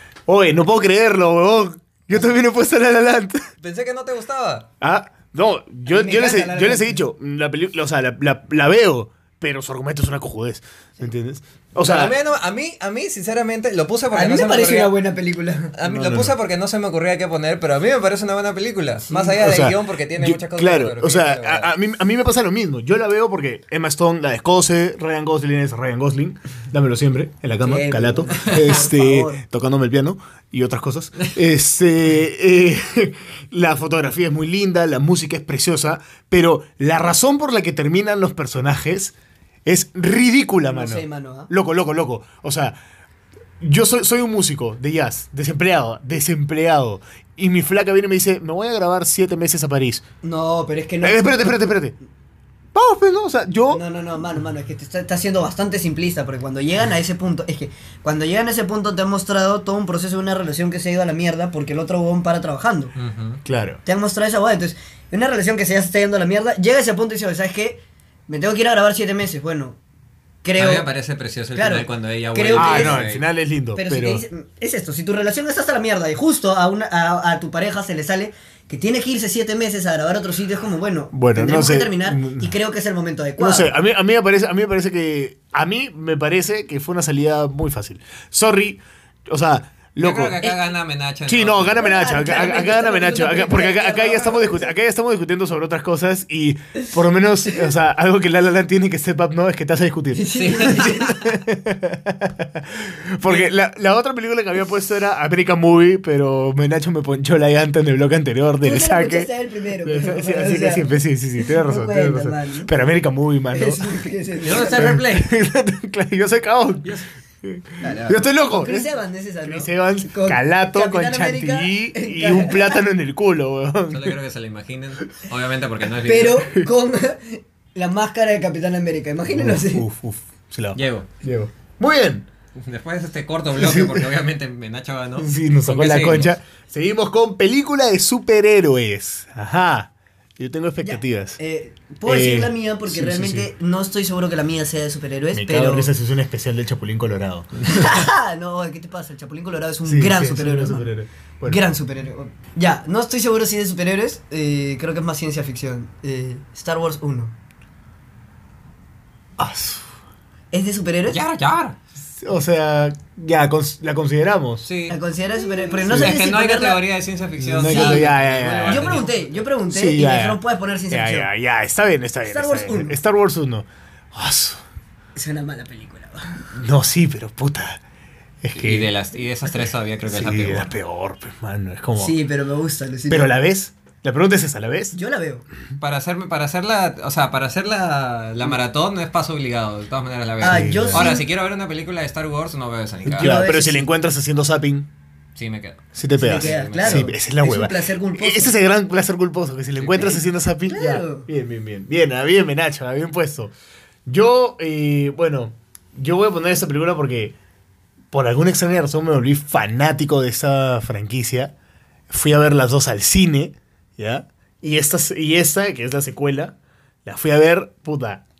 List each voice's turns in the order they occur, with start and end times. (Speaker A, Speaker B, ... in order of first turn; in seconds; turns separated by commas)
Speaker A: 0.3-3.5, Speaker B: 3.6-4.7, Speaker A: 4.8-12.2, Speaker C: 5.9-7.0, Speaker B: 11.8-14.9, Speaker C: 14.1-15.7, Speaker B: 15.7-21.7, Speaker A: 15.8-16.4, Speaker C: 19.1-19.4, Speaker A: 19.4-39.1, Speaker C: 27.6-29.4, Speaker A: 39.6-42.8, Speaker C: 40.6-41.5, Speaker A: 43.6-50.0, Speaker C: 50.2-51.6, Speaker A: 51.0-51.9, Speaker A: 52.7-53.8, Speaker C: 53.7-62.9, Speaker B: 63.0-63.4, Speaker A: 63.4-63.8, Speaker C: 63.8-69.8, Speaker C: 70.4-70.9, Speaker B: 70.6-73.2, Speaker C: 71.5-73.0, Speaker A: 72.5-74.2, Speaker C: 73.7-83.7, Speaker A: 81.1-82.5, Speaker A: 83.4-90.5, Speaker B: 90.0-91.8, Speaker A: 91.3-109.3, Speaker C: 91.8-94.7, Speaker C: 100.1-101.1, Speaker B: 100.3-101.2, Speaker B: 103.2-103.5, Speaker C: 108.6-112.7, Speaker A: 109.8-113.8, Speaker C: 113.5-114.9, Speaker B: 114.4-115.3, Speaker A: 114.7-118.9, Speaker C: 117.8-122.8, Speaker A: 119.4-124.2, Speaker B: 123.9-126.5, Speaker C: 126.0-129.8, Speaker A: 129.3-132.2, Speaker B: 130.7-131.1, Speaker B: 132.6-136.3, Speaker A: 133.6-134.1, Speaker A: 135.2-141.4, Speaker C: 140.8-145.9, Speaker A: 142.1-143.5, Speaker A: 145.3-147.5, Speaker C: 147.6-150.9, Speaker A: 149.8-151.6, Speaker C: 151.4-157.3, Speaker A: 159.4-159.8, Speaker C: 160.5-161.2, Speaker B: 161.1-161.8, Speaker A: 162.1-164.7, Speaker B: 164.6-165.0, Speaker C: 164.9-166.8, Speaker B: 165.8-169.2, Speaker A: 165.8-166.2, Speaker A: 167.4-169.0, Speaker C: 167.6-168.1, Speaker C: 168.7-171.3, Speaker A: 169.7-174.6, Speaker C: 172.3-172.9, Speaker C: 175.1-176.4, Speaker A: 176.5-177.8, Speaker A: 178.4-178.9, Speaker B: 178.5-180.7, Speaker A: 180.1-182.2, Speaker C: 182.0-183.3, Speaker A: 183.1-184.9, Speaker C: 184.9-185.4, Speaker B: 185.8-193.4, Speaker C: 190.4-191.2, Speaker A: 190.4-191.1, Speaker A: 193.1-194.9, Speaker C: 193.2-193.9, Speaker B: 195.3-197.1, Speaker A: 195.9-203.5, Speaker C: 196.2-198.5, Speaker B: 199.8-200.2, Speaker C: 200.7-201.3, Speaker A: 204.1-207.3, Speaker A: 208.1-211.5, Speaker A: 212.1-218.2